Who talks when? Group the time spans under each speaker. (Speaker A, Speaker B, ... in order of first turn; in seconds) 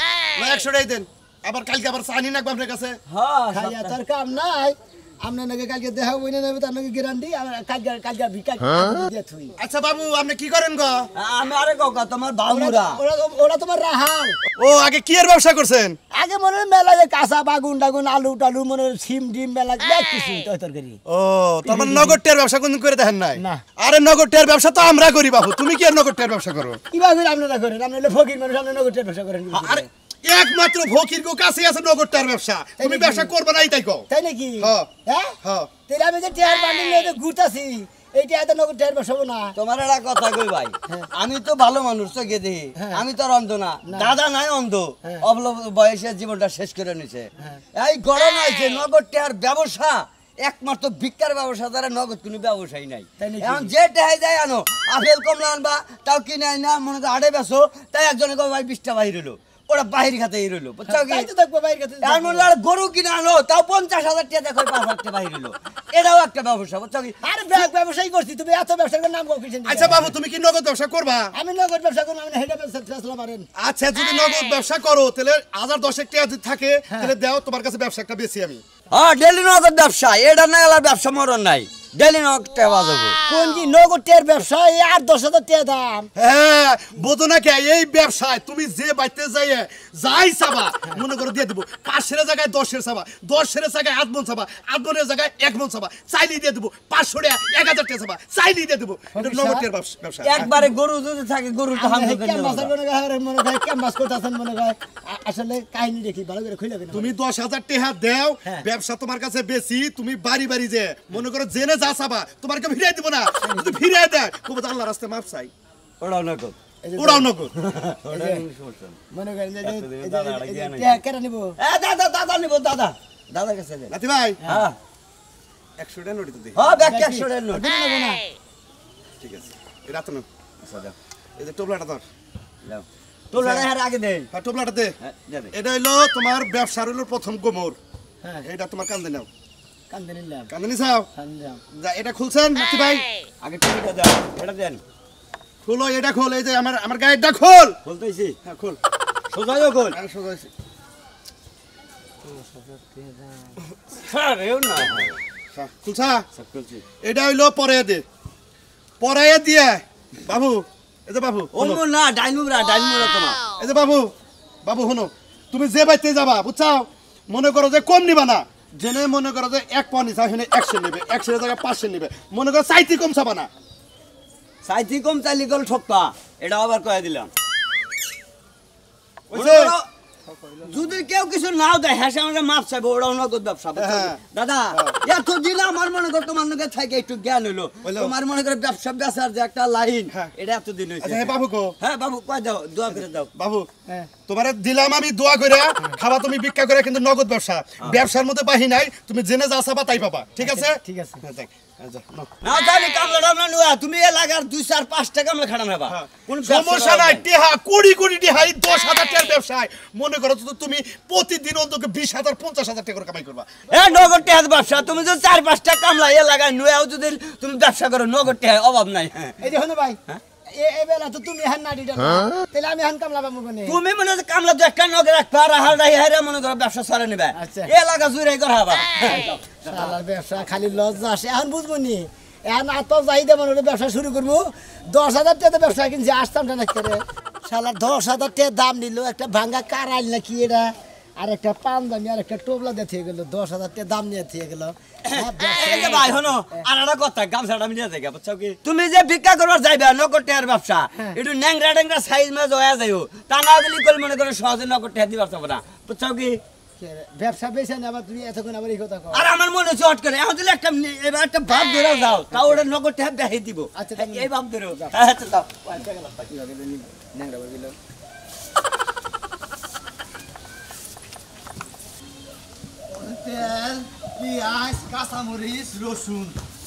Speaker A: 0.4-3.0, 9.6-11.1, 14.6-16.0, 21.1-26.8, 29.5-34.1, 34.6-34.9, 35.4-35.7, 69.7-71.3, 73.6-78.6, 86.2-100.5, 106.9-115.5, 117.0-117.5, 123.9-124.4, 125.8-126.7, 129.2-130.3, 131.4-132.0, 133.3-133.7, 134.3-134.9, 135.5-137.8, 138.4-139.3, 140.5-141.1, 141.7-143.1, 145.6-147.8, 148.4-148.8, 149.9-150.5, 155.5-156.2, 157.0-158.0, 159.0-161.8, 163.6-164.1, 164.7-173.5, 179.3-179.7, 183.8-184.2, 187.8-188.1, 191.0-191.8, 192.9-193.7, 194.3-202.3, 205.9-213.5
Speaker B: 3.1-4.0, 11.2-13.0, 39.6-61.3, 62.0-67.2, 78.9-83.2, 100.2-102.7, 116.0-116.5, 117.8-119.0, 119.6-121.0, 121.6-124.0, 124.5-124.8, 126.5-127.7, 130.6-130.9, 132.7-134.3, 135.0-135.5, 143.4-144.8, 147.8-148.4, 149.3-150.0, 153.9-155.2, 156.4-156.8, 161.5-163.4, 174.6-177.3, 179.3-179.9, 180.7-193.3, 202.4-207.2, 213.7-219.4, 223.7-229.9, 245.1-256.4, 259.1-266.3, 272.9-276.4
Speaker C: 3.5-9.6, 12.5-14.4, 16.1-21.0, 21.6-22.2, 23.4-23.6, 26.9-29.9, 32.8-33.3, 34.1-39.5, 42.8-43.0, 43.9-44.2, 53.2-53.7, 60.9-62.5, 67.2-70.1, 71.3-73.5, 83.3-86.1, 99.1-99.7, 101.7-107.1, 116.8-117.5, 118.1-118.5, 119.1-121.6, 126.8-128.2, 139.9-140.5, 141.2-141.6, 152.2-153.6, 200.4-201.2, 219.4-220.0, 220.5-223.8, 227.3-227.7, 229.0-246.7, 256.8-259.3, 262.3-262.6, 263.8-264.9, 266.3-267.8